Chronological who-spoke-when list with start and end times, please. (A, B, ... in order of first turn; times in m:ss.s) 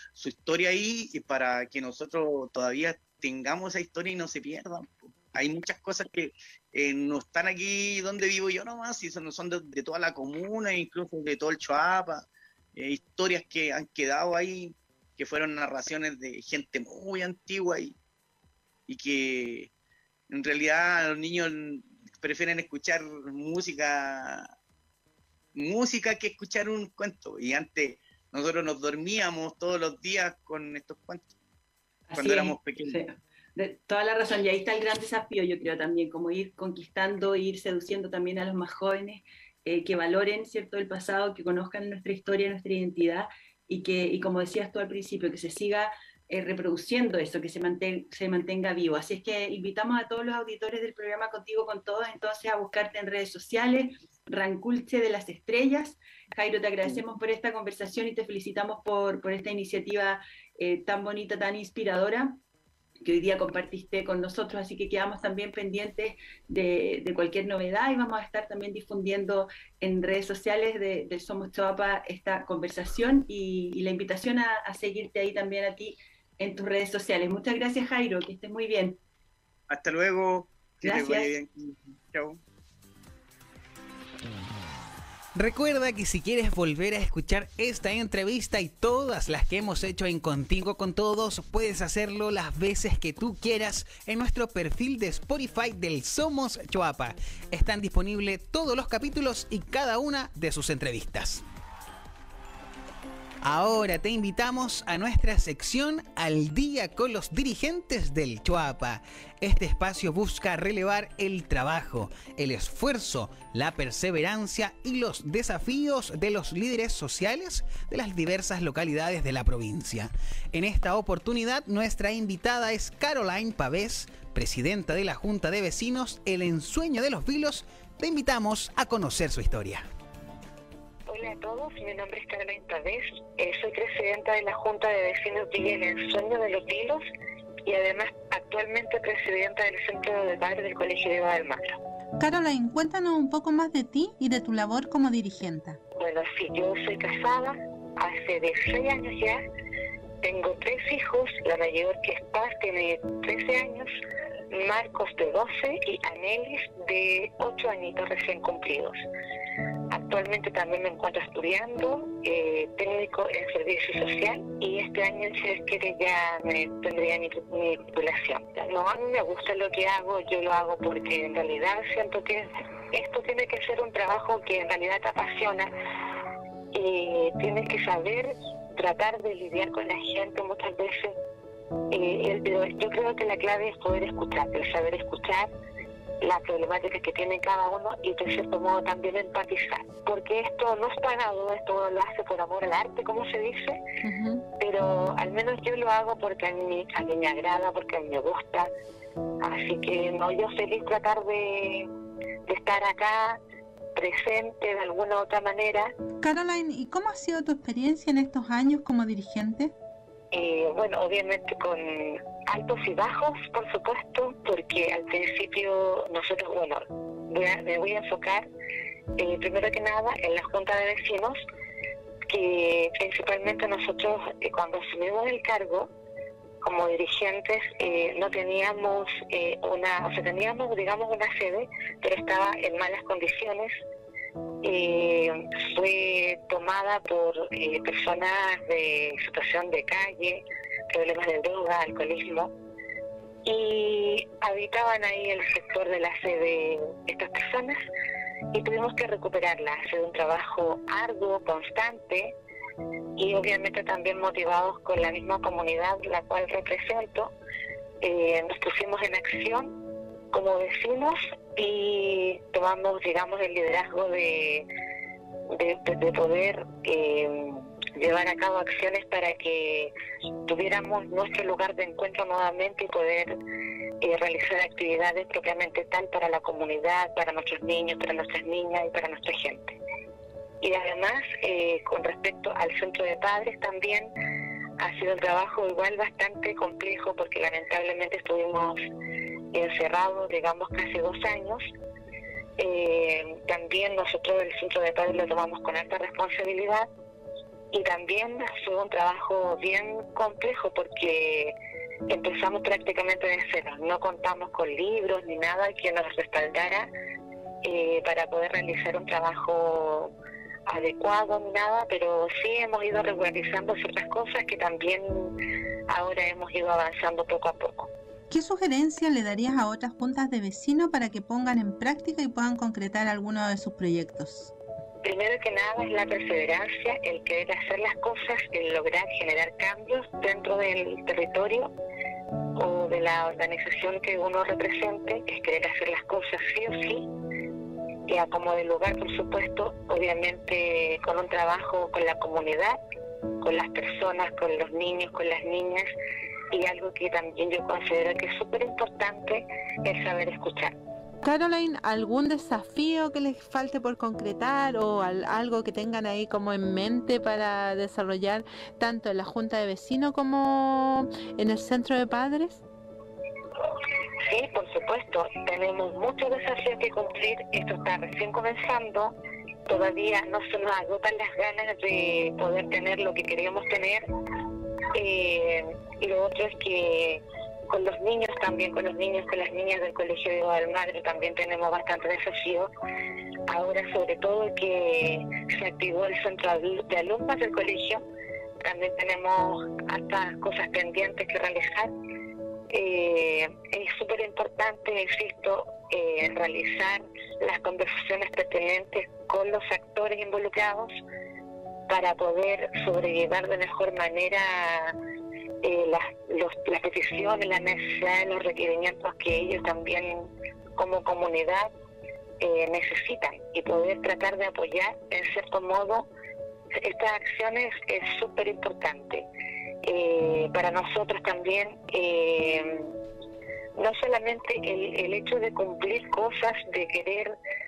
0:00.1-0:18.0 A
0:18.9-0:19.7 A
0:20.3-0:24.5 A
0:25.6-0:31.3 A
0:32.1-1:02.4 B
0:32.2-0:33.0 A
1:03.0-1:19.0 B
1:19.7-1:22.4 A
1:20.8-1:21.3 B
1:25.4-1:41.4 C
1:43.4-2:09.8 C
2:11.1-2:17.0 D
2:17.6-2:21.8 D
2:22.2-2:25.8 E
2:26.0-2:29.4 D
2:30.2-2:34.0 D
2:34.5-2:39.0 D
2:39.9-2:55.7 D
2:56.7-3:01.1 D
3:01.9-3:05.5 D
3:06.2-3:13.8 D
3:14.0-3:14.4 E
3:14.6-3:18.7 D
3:19.4-3:21.9 D
3:22.5-3:23.4 D
3:24.0-3:25.9 D
3:26.2-3:29.7 E
3:30.3-3:38.5 D
3:39.2-3:41.4 D
3:42.3-3:45.9 D
3:46.6-3:53.8 D
3:54.6-4:02.5 D
4:03.4-4:07.8 D
4:08.5-4:12.4 D
4:13.2-4:17.3 D
4:18.0-4:19.7 D
4:20.3-4:24.7 D
4:25.5-4:29.9 D
4:30.5-4:33.3 D
4:34.0-4:39.8 D
4:40.6-4:44.1 D
4:44.8-4:48.8 D
4:49.5-4:51.7 D
4:52.6-4:56.9 D
4:57.7-5:01.6 D
5:02.1-5:06.9 D
5:07.6-5:10.1 D
5:10.7-5:15.3 D
5:15.9-5:17.9 D
5:18.3-5:24.5 E
5:25.0-5:31.7 D
5:32.6-5:37.1 D
5:38.1-5:42.8 D
5:43.4-5:45.9 D
5:46.5-5:50.8 D
5:51.2-6:02.6 E
6:04.2-6:09.1 D
6:09.7-6:14.0 D
6:14.9-6:22.7 D
6:23.5-6:28.0 D
6:28.6-6:31.9 D
6:32.7-6:41.0 D
6:41.9-6:44.9 D
6:45.6-6:51.7 D
6:52.4-6:56.1 D
6:56.8-6:59.3 D
6:59.8-7:02.9 D
7:03.8-7:07.4 D